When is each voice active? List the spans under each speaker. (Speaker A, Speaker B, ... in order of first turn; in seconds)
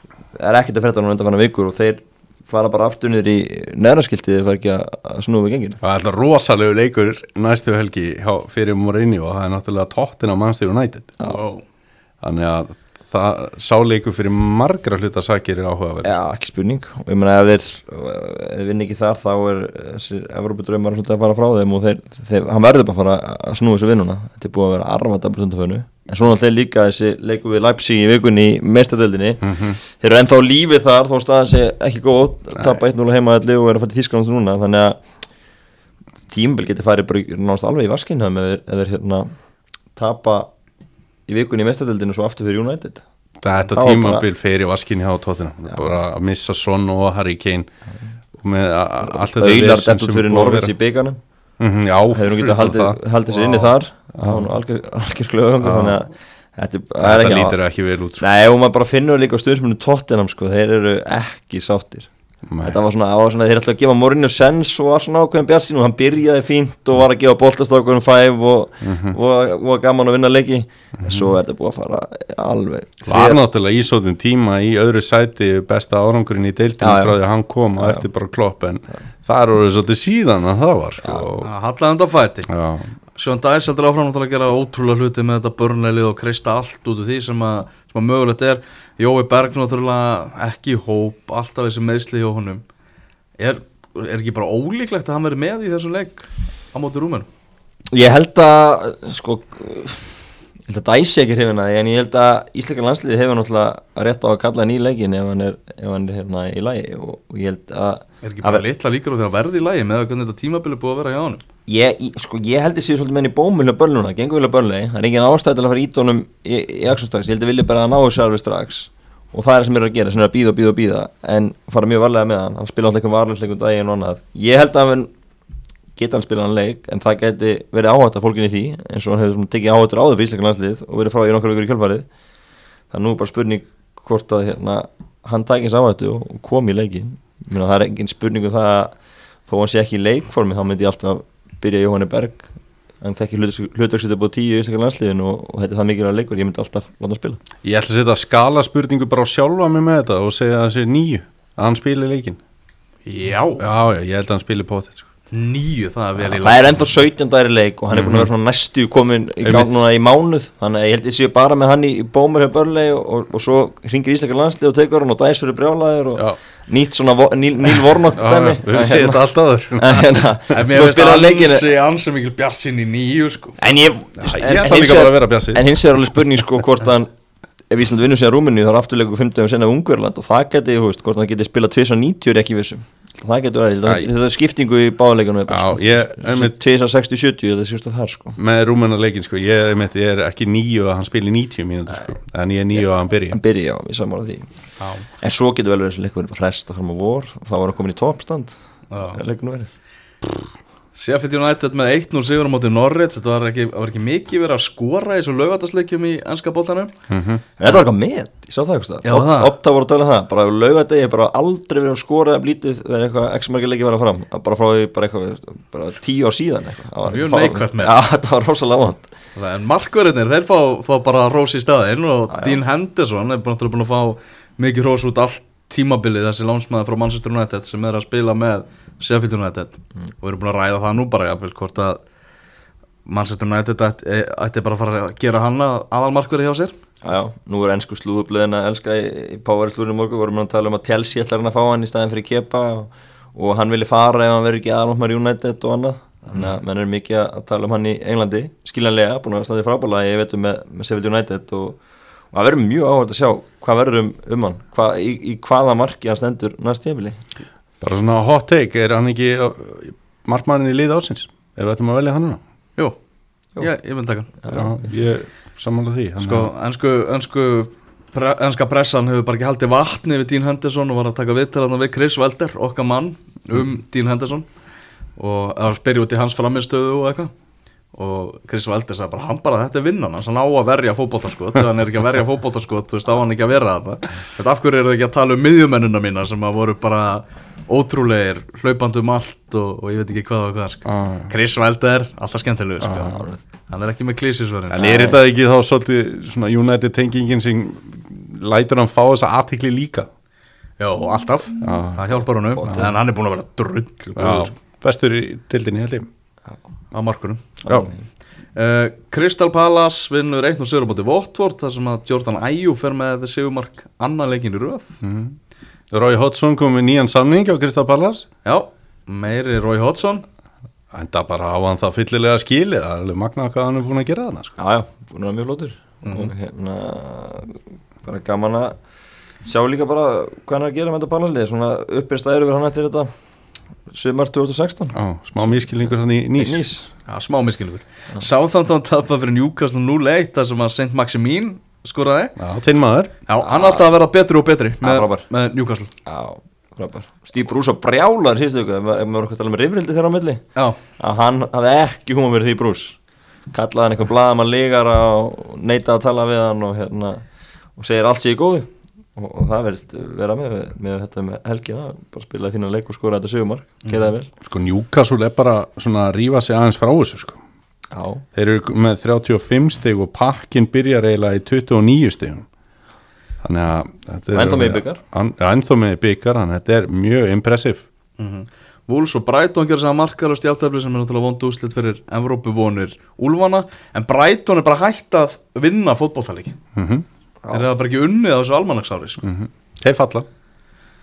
Speaker A: 0.3-5.8, 16.0-35.0, 36.3-39.3, 39.9-40.5, 41.3-43.0, 43.6-44.2, 49.0-51.2, 52.1-57.6, 58.2-62.1, 62.6-73.4, 76.8-77.2, 77.8-78.0, 81.0-81.3, 97.9-108.6, 111.7-125.1, 126.0-132.1, 132.9-138.9, 139.4-147.4, 156.2-169.2, 169.8-171.6, 173.6-177.1, 177.7-188.3, 192.8-194.5, 195.1-198.6, 199.1-199.7, 207.6-219.0, 222.3-222.6, 237.0-251.8, 252.3-257.2, 264.4-264.8, 294.8-295.2, 302.6-302.9, 307.6-308.0, 324.6-328.8, 329.4-333.1, 333.9-334.9, 336.4-336.9, 343.4-343.9, 344.8-345.2, 346.1-350.4, 351.0-352.9, 353.5-364.3, 367.9-368.2, 374.3-375.0
Speaker B: 5.8-11.1, 12.2-16.1, 29.4-29.8, 43.4-47.7, 48.4-50.7, 51.6-54.5, 55.6-56.0, 57.0-58.2, 62.5-62.8, 68.8-69.2, 71.0-71.3, 73.1-81.5, 82.5-82.9, 147.6-152.4, 153.6-155.1, 157.9-158.3, 159.4-159.7, 168.2-170.2, 174.2-175.7, 185.5-186.5, 188.4-193.4, 207.1-207.4, 257.8-262.4, 264.5-266.5, 290.8-291.3, 292.8-293.2, 294.7-300.1, 301.6-302.9, 304.1-306.1, 315.0-315.4, 315.9-318.3, 320.9-324.6, 334.9-336.6, 342.4-343.1, 364.4-367.4, 368.3-372.4, 373.4-377.8, 386.7-387.0, 389.2-390.2
Speaker C: 11.2-11.6, 81.4-82.5, 83.1-92.6, 93.4-97.3, 108.2-111.4, 153.1-153.6, 155.3-156.7, 170.5-173.6, 194.8-195.1, 198.9-199.2, 200.9-206.9, 209.0-209.5, 217.0-218.0, 219.3-232.0, 233.1-236.7, 263.6-264.3, 266.2-274.5, 275.2-277.3, 277.9-294.9, 300.8-304.5, 306.9-307.5, 308.5-314.9, 318.4-320.2, 326.0-326.3, 337.1-342.3, 343.3-345.9, 378.2-386.6, 387.5-389.2